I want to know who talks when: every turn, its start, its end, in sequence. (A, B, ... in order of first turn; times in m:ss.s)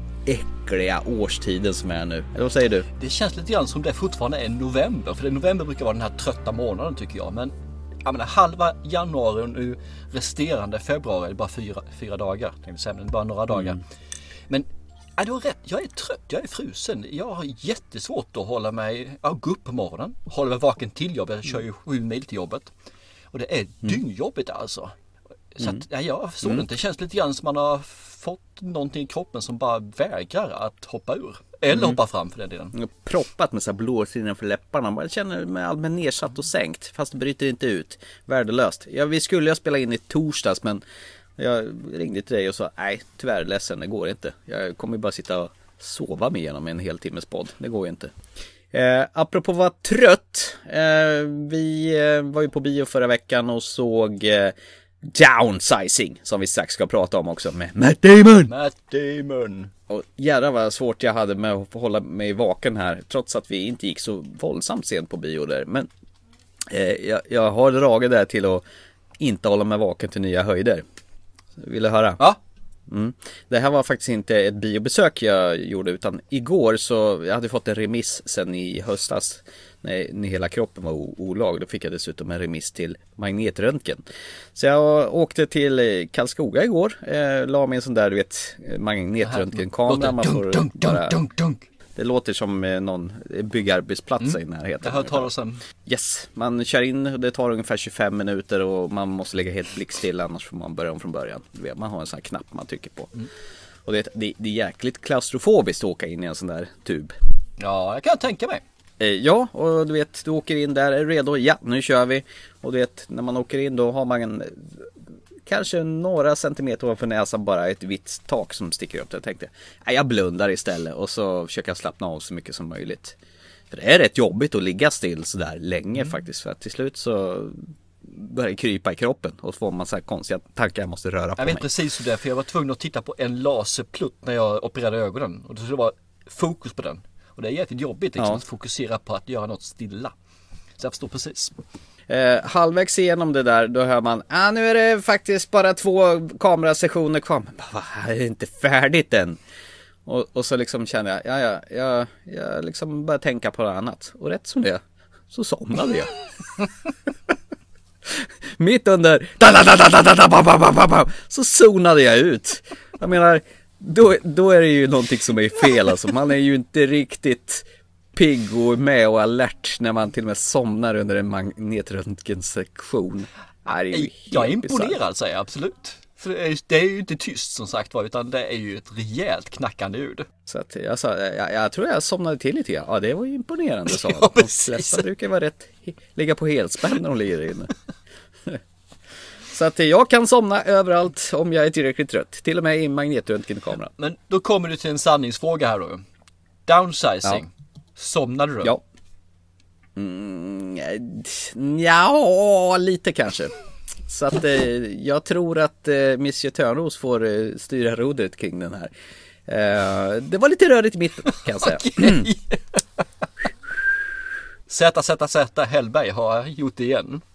0:00.2-0:02.9 A
0:03.0-0:07.5 B
0:08.0-0:13.8 B
0:14.5-0:22.7 B
0:23.3-0:24.9 B
0:25.5-0:32.8 B
0:31.7-0:32.0 A
0:32.8-0:40.8 A
0:41.4-0:48.1 A
0:48.7-0:58.5 A
0:58.4-0:59.7 B
0:59.9-1:05.9 A
1:06.7-1:08.6 A
1:09.2-1:10.8 A
1:11.6-1:12.2 A
1:12.9-1:24.0 A
1:24.5-1:31.2 A
1:29.2-1:31.6 B
1:32.0-1:35.3 A
1:34.2-1:35.6 B
1:35.8-1:43.2 A
1:43.8-1:47.2 A
1:47.6-1:48.6 B
1:49.0-1:54.9 A
1:55.4-2:03.2 A
2:03.7-2:11.7 A
2:11.4-2:20.1 B
2:20.8-2:21.5 B
2:22.1-2:29.4 A
2:30.0-2:36.2 A
2:38.0-2:55.0 A
2:53.9-3:00.3 B
3:00.4-3:07.7 A
3:03.9-3:05.1 B
3:09.5-3:13.9 A
3:14.0-3:16.0 B
3:16.6-3:18.8 B
3:20.0-3:23.5 A
3:24.1-3:28.9 A
3:29.5-3:32.3 A
3:31.3-3:33.0 B
3:34.7-3:37.2 B